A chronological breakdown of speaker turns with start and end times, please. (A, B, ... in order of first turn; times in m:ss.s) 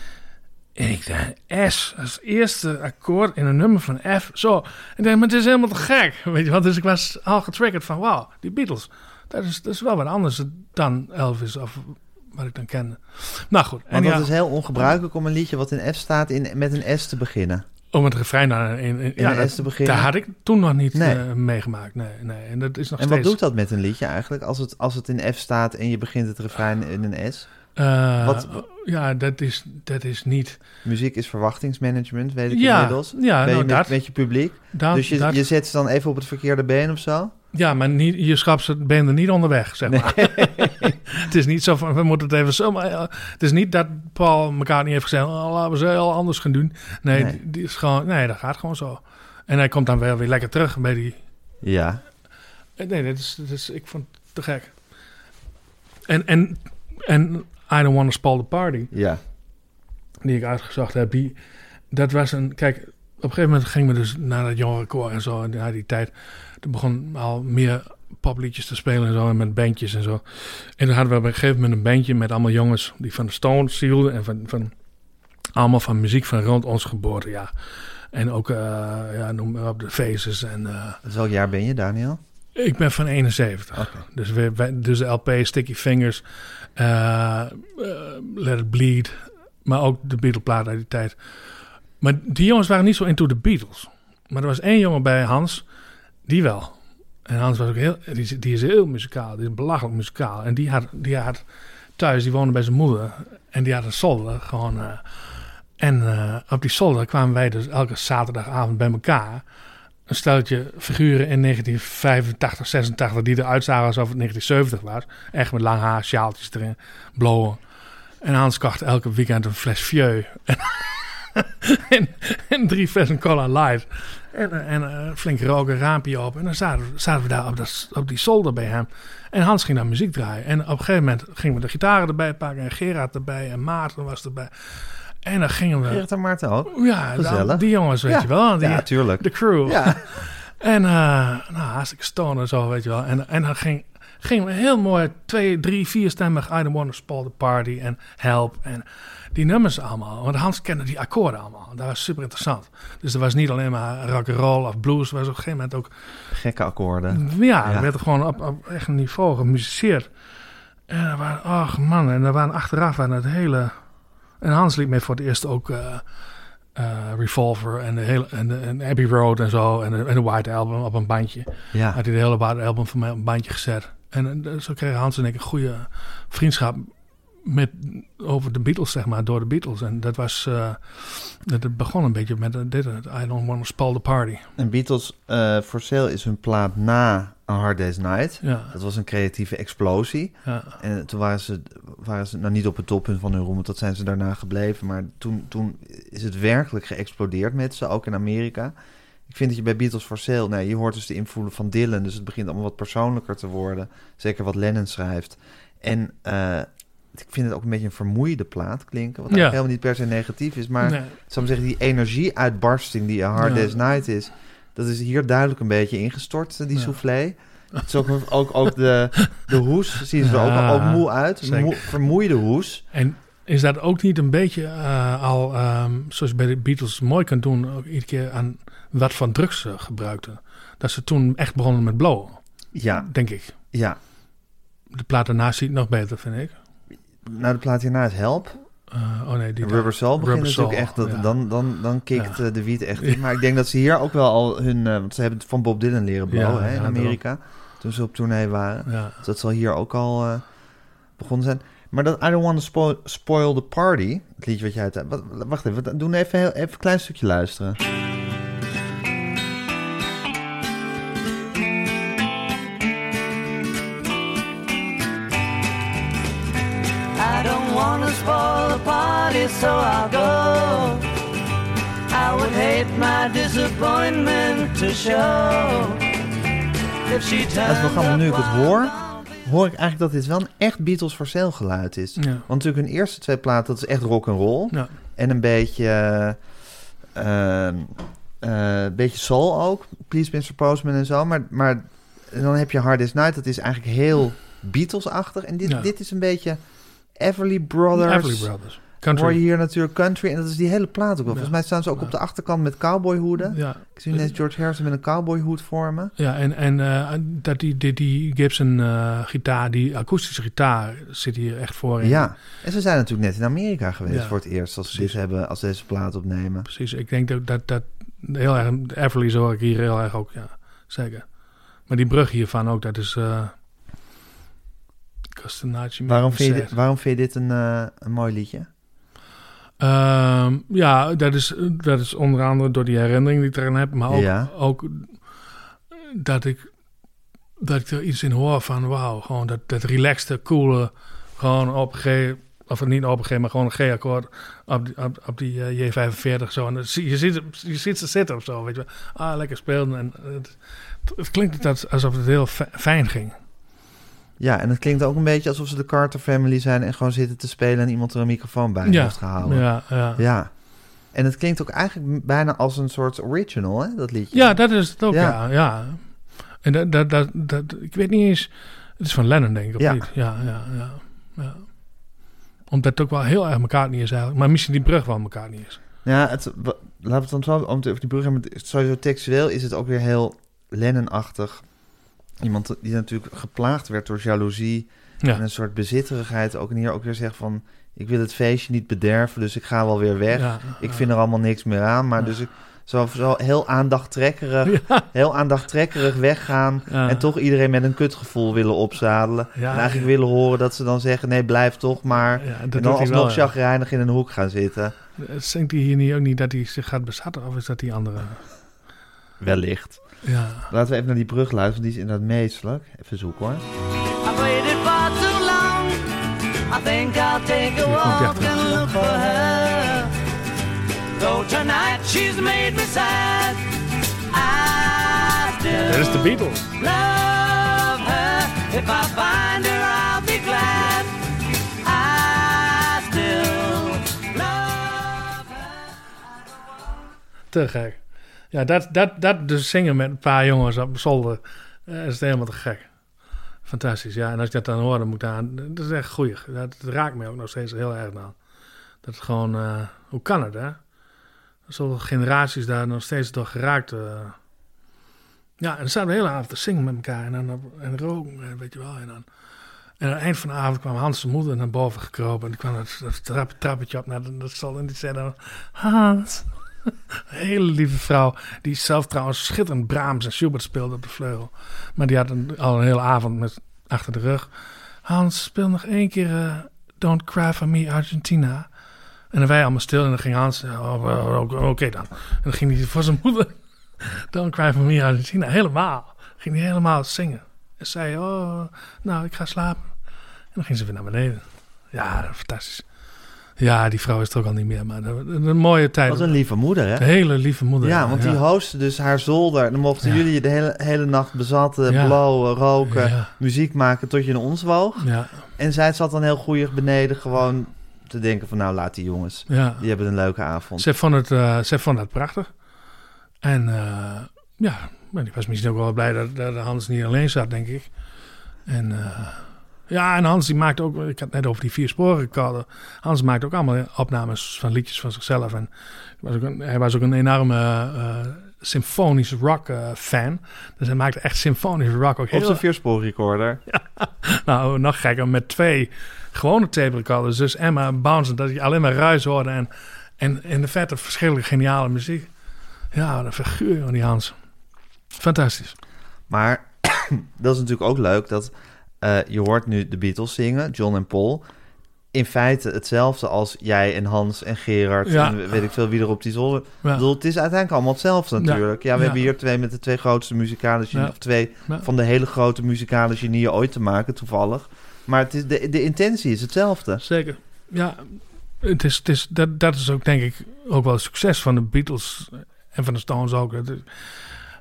0:00.8-0:14.3 A
0:13.9-0:17.6 B
0:17.9-0:23.4 A
0:19.2-0:20.1 B
0:20.9-0:21.2 B
0:23.0-0:27.5 B
0:27.8-0:30.6 A
0:28.2-0:28.6 B
0:30.8-0:37.3 B
0:32.5-0:35.4 A
0:37.5-0:51.2 A
0:39.8-0:41.0 B
0:47.1-0:47.4 B
0:51.6-0:52.0 B
0:52.8-0:54.8 A
0:56.0-0:58.9 A
0:58.9-0:59.2 B
1:00.2-1:01.4 A
1:01.9-1:14.7 A
1:15.5-1:17.5 A
1:18.1-1:21.0 A
1:21.0-1:22.2 B
1:22.6-1:26.2 A
1:23.7-1:24.0 B
1:26.8-1:31.2 A
1:32.0-1:35.6 A
1:36.2-1:41.4 A
1:42.0-1:49.4 A
1:50.1-1:57.6 A
1:58.2-2:16.0 A
2:15.8-2:20.0 B
2:16.6-2:35.9 A
2:36.3-2:37.9 B
2:37.1-2:40.1 A
2:40.9-2:43.8 A
2:44.4-2:46.0 A
2:46.7-2:56.9 A
2:51.7-2:52.0 B
2:57.4-3:04.4 A
3:04.6-3:18.7 B
3:08.4-3:08.7 A
3:10.4-3:10.8 A
3:19.3-3:42.8 B
3:29.3-3:29.6 A
3:30.8-3:31.2 A
3:33.4-3:33.8 A
3:36.7-3:37.0 A
3:40.2-3:41.9 A
3:42.9-3:52.4 A
3:52.7-3:54.0 B
3:52.9-3:53.5 A
3:54.9-3:56.5 A
3:57.2-3:58.6 B
3:58.9-4:01.4 A
3:59.6-4:10.5 B
4:02.1-4:02.4 A
4:03.0-4:03.2 A
4:06.3-4:07.2 A
4:08.9-4:09.2 A
4:11.2-4:17.8 B
4:27.2-4:31.1 C
4:32.1-4:36.1 C
4:37.1-4:38.4 C
4:37.6-4:46.4 B
4:42.2-4:42.4 A
4:47.1-4:56.6 B
4:55.6-4:55.9 A
4:57.1-5:06.1 B
4:57.9-4:59.4 A
5:01.3-5:02.1 A
5:03.4-5:04.4 A
5:06.2-5:12.3 A
5:12.0-5:16.7 B
5:14.1-5:15.1 A
5:16.6-5:21.3 A
5:21.8-5:23.6 A
5:25.3-5:26.8 A
5:26.0-5:28.7 B
5:29.8-5:35.2 A
5:34.1-5:34.5 B
5:35.9-5:36.7 A
5:37.6-5:53.4 A
5:54.4-6:05.4 B
5:58.8-6:00.2 A
6:04.3-6:11.7 A
6:09.8-6:10.1 B
6:12.7-6:15.8 A
6:16.0-6:21.7 B
6:22.4-6:44.9 B
6:30.3-6:31.1 A
6:34.6-6:35.0 A
6:36.9-6:37.2 A
6:39.5-6:40.1 A
6:42.1-6:43.5 A
6:45.2-6:48.5 A
6:49.4-6:50.0 B
6:50.2-6:50.7 A
6:50.7-6:53.6 B
6:54.2-6:56.1 C
6:56.7-7:00.1 C
6:57.8-6:58.7 A
7:01.2-7:03.6 C
7:04.3-7:06.0 C
7:05.7-7:06.7 A
7:06.8-7:11.1 C
7:11.8-7:15.7 C
7:17.5-7:22.9 A
7:23.6-7:28.4 A
7:29.0-7:30.8 A
7:31.7-7:34.4 A
7:35.6-7:39.2 A
7:40.0-7:54.5 A
7:55.0-7:58.7 A
7:59.3-8:09.9 A
8:10.5-8:12.8 A
8:13.6-8:16.3 A
8:16.1-8:17.1 B
8:16.9-8:18.4 A
8:17.8-8:30.9 B
8:21.9-8:23.3 A
8:25.0-8:25.4 A
8:29.5-8:29.8 A
8:30.8-8:32.5 A
8:33.4-8:37.9 A
8:38.6-8:52.6 A
8:52.3-8:53.6 B
8:53.7-9:02.3 A
9:02.9-9:04.4 A
9:05.1-9:05.8 A
9:06.3-9:11.4 B
9:12.1-9:27.0 B
9:15.0-9:15.6 A
9:18.4-9:19.2 A
9:20.9-9:21.8 A
9:27.0-9:34.2 A